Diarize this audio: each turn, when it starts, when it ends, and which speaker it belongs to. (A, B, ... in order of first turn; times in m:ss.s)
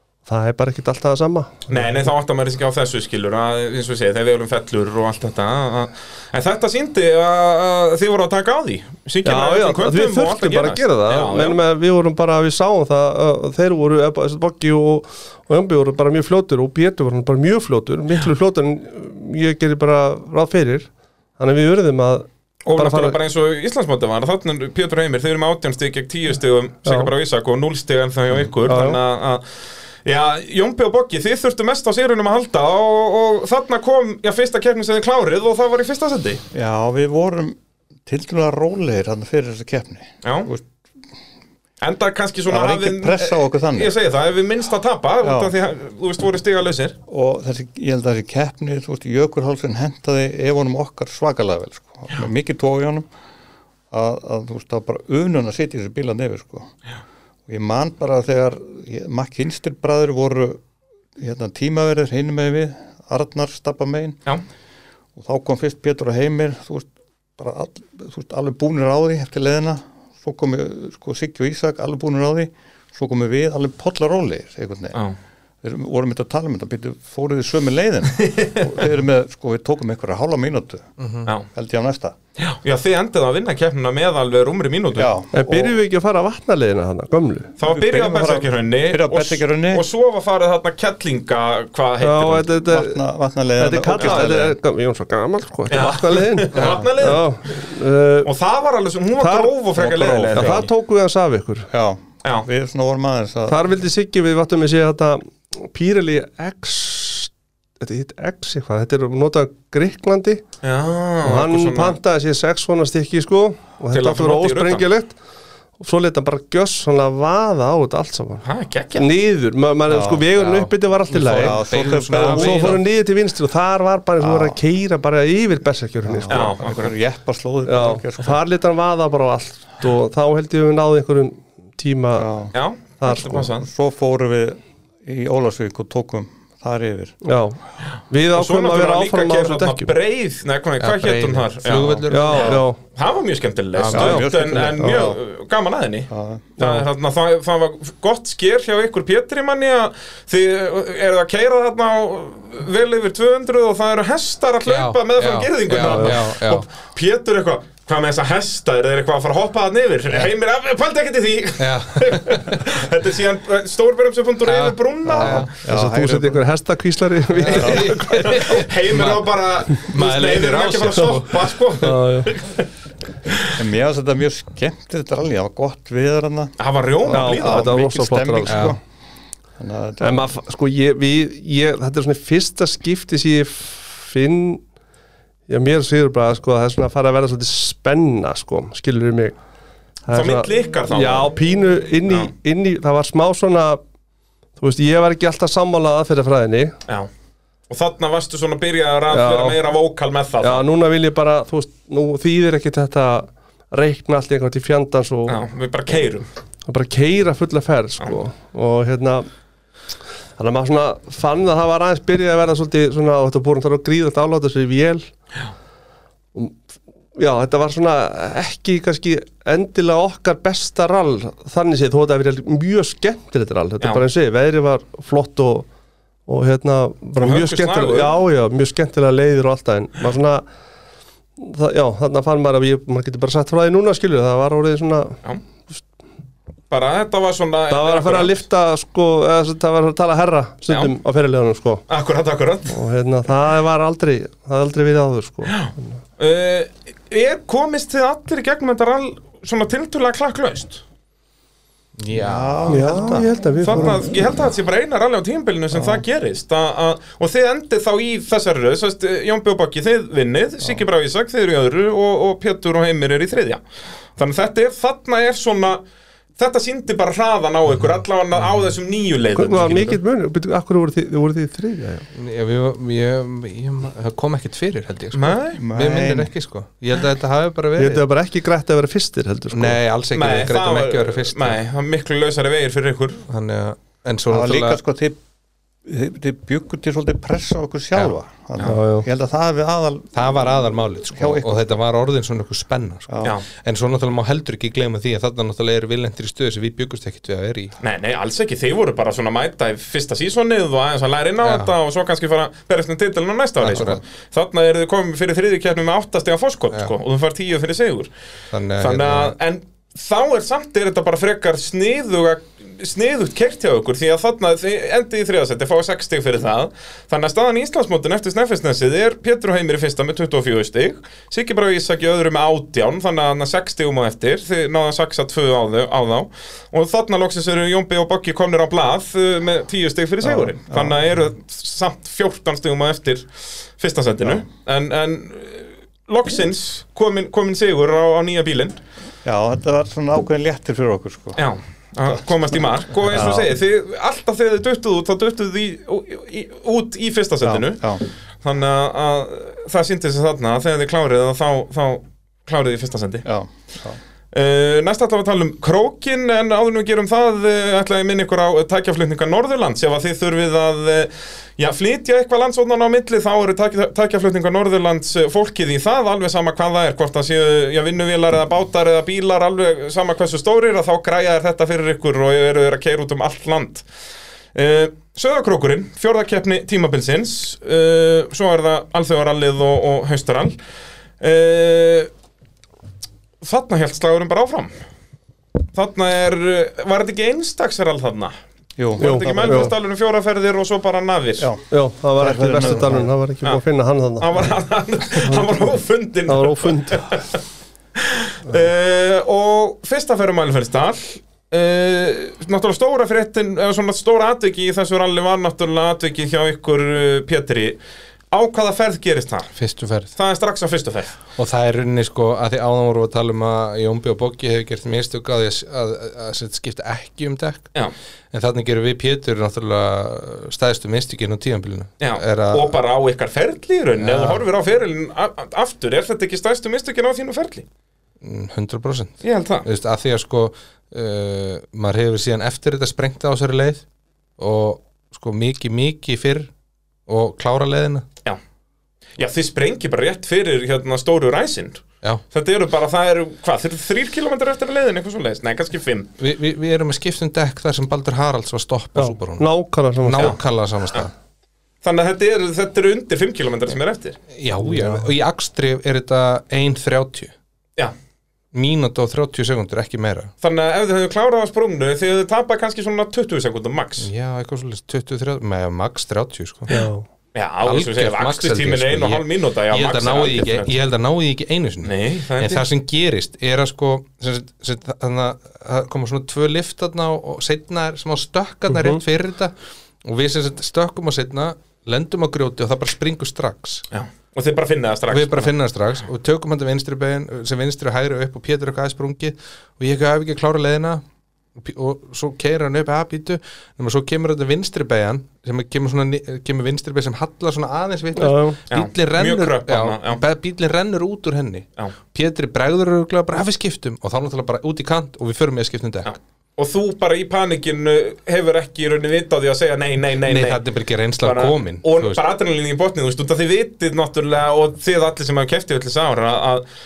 0:00.2-0:01.7 A
0:01.7-0:11.6 B
0:09.2-0:23.2 A
0:22.6-0:29.4 B
0:26.8-0:27.1 A
0:28.6-0:29.0 A
0:30.0-0:36.4 B
0:36.5-0:40.6 C
0:40.2-0:40.5 B
0:41.8-0:46.9 B
0:42.5-0:43.9 C
0:45.2-0:45.5 C
0:47.1-0:53.1 C
0:53.9-0:56.7 C
0:57.5-1:00.6 C
1:01.2-1:04.2 C
1:05.2-1:15.0 C
1:15.6-1:20.9 C
1:18.2-1:18.8 B
1:21.0-1:21.3 D
1:21.5-1:22.2 C
1:22.4-1:25.1 B
1:24.9-1:25.8 C
1:25.3-1:27.5 A
1:27.6-1:32.5 B
1:27.6-1:29.9 C
1:32.0-1:33.0 A
1:32.6-1:34.6 C
1:33.6-1:38.3 A
1:35.7-1:37.4 B
1:38.2-1:40.7 B
1:39.2-1:39.5 A
1:39.8-1:40.7 C
1:40.3-1:41.7 A
1:41.7-1:43.6 C
1:43.5-1:50.4 A
1:50.6-1:52.0 B
1:51.2-1:55.2 A
1:53.9-1:54.8 B
1:55.8-2:06.5 A
1:58.4-1:59.1 B
1:59.9-2:00.3 C
2:00.4-2:02.8 D
2:01.2-2:02.8 C
2:04.2-2:04.6 C
2:06.0-2:08.4 C
2:06.3-2:06.9 B
2:07.6-2:12.3 A
2:12.2-2:12.5 C
2:12.5-2:13.7 B
2:13.0-2:13.5 A
2:13.5-2:17.2 C
2:17.2-2:17.6 A
2:18.1-2:19.9 A
2:18.3-2:45.5 B
2:20.8-2:22.6 D
2:21.9-2:22.6 C
2:22.1-2:22.8 A
2:23.8-2:24.3 D
2:23.9-2:25.2 C
2:24.8-2:25.1 A
2:26.1-2:26.4 C
2:26.6-2:26.8 A
2:34.6-2:36.6 D
2:35.8-2:36.2 A
2:41.6-2:42.6 D
2:44.4-2:45.5 D
2:45.0-2:46.4 C
2:45.6-2:48.6 A
2:47.4-2:51.5 D
2:47.5-2:47.9 C
2:47.6-2:52.7 B
2:51.8-2:52.3 A
2:53.3-2:53.5 B
2:53.5-2:58.8 C
2:56.6-2:57.7 B
2:57.1-2:58.7 A
2:58.4-2:58.8 D
2:59.6-3:00.3 C
3:00.0-3:04.6 A
3:05.5-3:09.4 A
3:10.1-3:13.8 A
3:10.1-3:11.3 B
3:14.6-3:16.7 A
3:17.7-3:20.6 B
3:19.1-3:19.6 A
3:20.4-3:25.4 A
3:25.3-3:26.2 B
3:26.6-3:29.3 A
3:30.4-3:35.1 A
3:37.2-3:45.7 A
3:46.3-3:50.4 A
3:47.2-3:48.1 B
3:51.4-3:55.2 A
3:56.7-3:58.4 B
3:57.7-4:01.8 A
4:01.9-4:02.7 B
4:02.7-4:05.6 A
4:05.5-4:10.8 B
4:12.0-4:12.8 D
4:12.1-4:13.3 C
4:12.7-4:14.0 A
4:13.6-4:23.6 B
4:24.2-4:25.8 B
4:26.4-4:30.0 B
4:29.3-4:32.0 A
4:32.1-4:38.0 D
4:35.1-4:35.6 B
4:35.5-4:36.3 C
4:37.8-4:39.8 A
4:39.5-4:41.6 D
4:40.1-4:43.2 B
4:43.3-4:44.8 D
4:44.3-4:45.2 C
4:45.8-4:50.4 C
4:48.6-4:49.1 A
4:50.1-4:57.7 D
4:51.1-4:51.8 C
4:53.1-4:53.3 C
4:57.8-5:08.1 B
5:01.4-5:01.7 D
5:03.6-5:04.0 D
5:08.5-5:09.3 D
5:08.8-5:38.8 B
5:30.2-5:31.0 C
5:39.2-5:41.4 C
5:41.4-5:53.2 B
5:43.0-5:43.5 C
5:47.4-5:48.0 C
5:53.2-5:54.0 C
5:54.3-6:13.8 B
6:14.5-6:20.6 B
6:21.2-6:22.1 B
6:23.4-6:24.7 B
6:25.7-6:28.3 B
6:28.8-6:29.7 C
6:29.0-6:31.5 B
6:29.0-6:29.7 A
6:31.4-6:31.6 C
6:31.7-6:34.3 A
6:32.2-6:33.1 C
6:34.2-6:37.4 B
6:35.2-6:35.5 A
6:36.3-6:37.0 A
6:38.0-6:47.8 B
6:48.3-6:49.5 B
6:49.5-6:50.1 D
6:50.2-6:51.2 B
6:51.4-6:57.7 D
6:58.3-7:02.7 D
7:02.0-7:07.6 B
7:04.0-7:04.4 D
7:08.2-7:13.8 D
7:09.2-7:09.6 B
7:14.4-7:16.5 D
7:17.1-7:18.0 D
7:19.2-7:26.1 B
7:26.2-7:29.5 D
7:29.0-7:30.3 A
7:30.0-7:31.1 D
7:31.8-7:34.2 B
7:34.3-7:37.3 D
7:34.6-7:35.0 A
7:38.5-7:40.3 D
7:40.4-7:44.1 B
7:44.0-7:46.7 D
7:46.7-7:47.0 A
7:47.3-7:50.7 B
7:47.6-7:59.5 D
7:51.8-7:52.6 B
7:58.7-7:59.0 A
8:00.0-8:03.8 D
8:03.9-8:05.5 B
8:05.1-8:11.0 D
8:11.6-8:26.1 D
8:18.1-8:18.6 A
8:18.7-8:20.2 B
8:26.0-8:30.6 B
8:30.2-8:32.2 D
8:31.2-8:36.6 B